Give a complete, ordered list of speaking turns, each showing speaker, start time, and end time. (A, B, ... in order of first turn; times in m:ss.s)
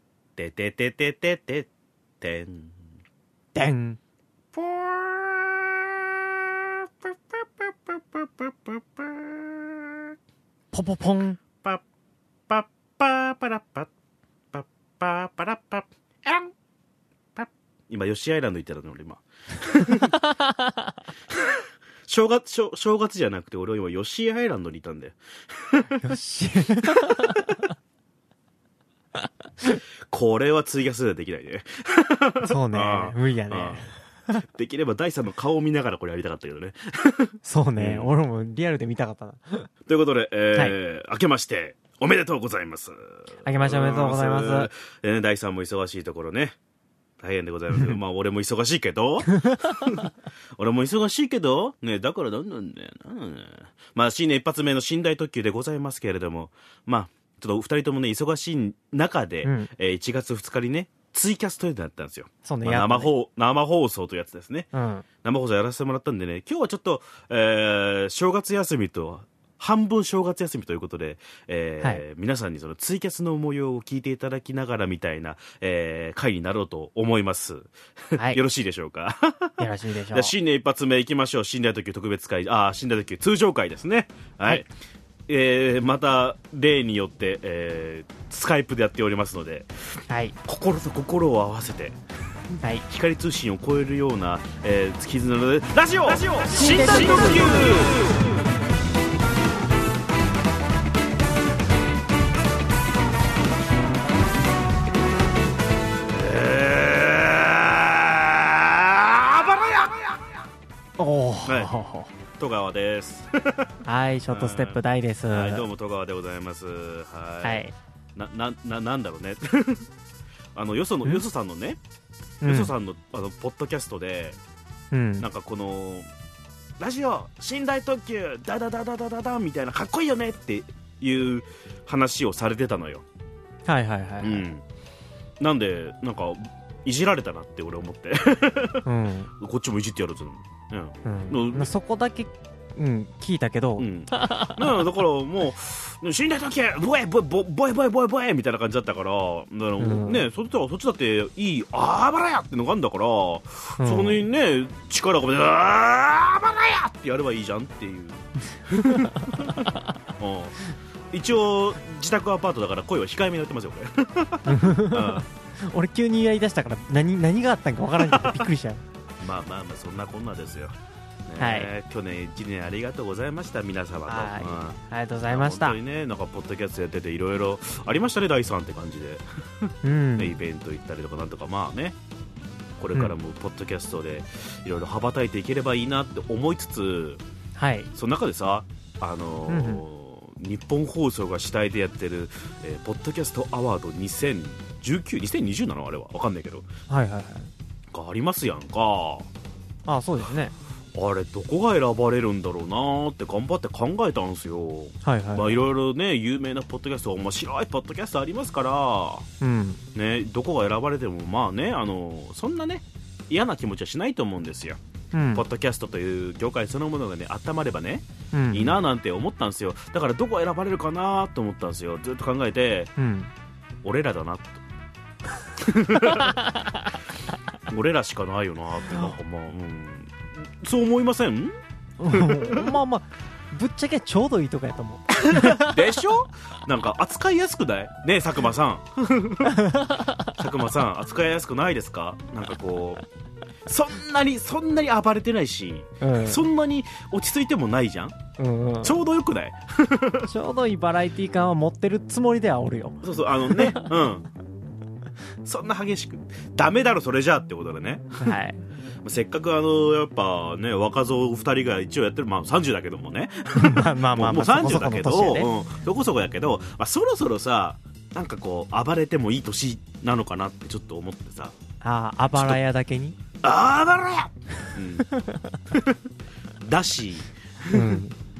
0:00.4-0:01.7 A
0:02.2-0:02.8 A
0:03.5-0:04.0 B
0:04.5-0:10.1 A
0:10.7-0:11.4 B
0:12.5-0:13.9 A
0:14.5-0:16.5 A
0:17.3-0:20.1 A
0:19.9-0:20.9 B
0:21.3-0:26.0 A
0:26.0-0:27.6 B
0:27.0-0:27.5 A
0:30.1-0:38.1 A
0:32.4-0:33.9 B
0:37.4-0:39.7 B
0:39.8-0:46.6 A
0:43.4-0:44.7 B
0:47.2-1:04.7 A
0:49.3-0:50.0 B
0:59.4-0:59.7 B
1:02.4-1:03.1 B
1:04.7-1:05.0 B
1:05.2-1:24.7 A
1:18.2-1:18.4 B
1:19.6-1:20.3 B
1:25.3-1:29.7 A
1:30.1-1:30.4 B
1:30.4-1:32.0 A
1:32.8-1:38.2 A
1:36.1-1:38.1 B
1:46.1-1:50.2 A
1:51.0-1:52.1 B
1:51.4-1:51.7 A
1:52.4-1:53.7 A
1:53.8-1:55.6 B
1:54.3-1:57.6 A
1:57.4-1:57.7 B
1:58.2-1:59.9 A
2:00.5-2:01.8 A
2:02.4-2:02.7 B
2:02.4-2:04.4 A
2:04.9-2:05.3 B
2:05.2-2:06.0 A
2:06.8-2:13.0 A
2:13.6-2:14.4 B
2:14.2-2:14.6 A
2:15.4-2:18.8 A
2:18.8-2:19.3 B
2:19.4-2:21.7 A
2:21.0-2:24.8 B
2:23.8-2:40.6 A
2:29.8-2:30.2 B
2:33.8-2:34.2 B
2:38.7-2:39.8 B
2:41.1-2:45.2 A
2:44.4-2:48.8 B
2:48.1-2:48.4 A
2:49.2-2:50.8 A
2:51.3-2:54.8 A
2:51.4-2:51.7 B
2:54.1-2:55.8 B
2:55.3-3:02.0 A
2:59.8-3:00.3 B
3:02.8-3:07.2 A
3:07.6-3:07.9 B
3:07.9-3:16.7 A
3:09.5-3:09.8 B
3:16.9-3:17.5 B
3:17.9-3:19.3 A
3:19.8-3:20.5 B
3:20.9-3:29.2 A
3:25.0-3:25.5 B
3:29.4-3:29.8 B
3:29.9-3:34.8 A
3:35.1-3:35.4 B
3:35.3-3:42.9 A
3:38.3-3:38.8 B
3:43.0-3:43.3 B
3:43.8-3:44.6 A
3:45.4-3:46.4 A
3:46.0-3:46.7 B
3:47.7-3:51.5 A
3:52.0-3:56.0 B
3:52.1-3:52.7 A
3:55.2-3:59.6 A
3:59.4-4:00.3 B
4:00.3-4:03.0 A
4:03.6-4:08.2 A
4:06.0-4:06.4 B
4:08.4-4:09.0 B
4:08.8-4:10.3 A
4:10.2-4:13.9 B
4:13.0-4:14.3 A
4:15.4-4:18.4 A
4:18.2-4:18.6 B
4:19.0-4:31.5 A
4:23.6-4:25.5 B
4:31.8-4:33.2 B
4:33.4-4:35.1 A
4:35.1-4:35.6 B
4:35.7-4:36.0 A
4:36.6-4:38.0 A
4:37.7-4:38.1 B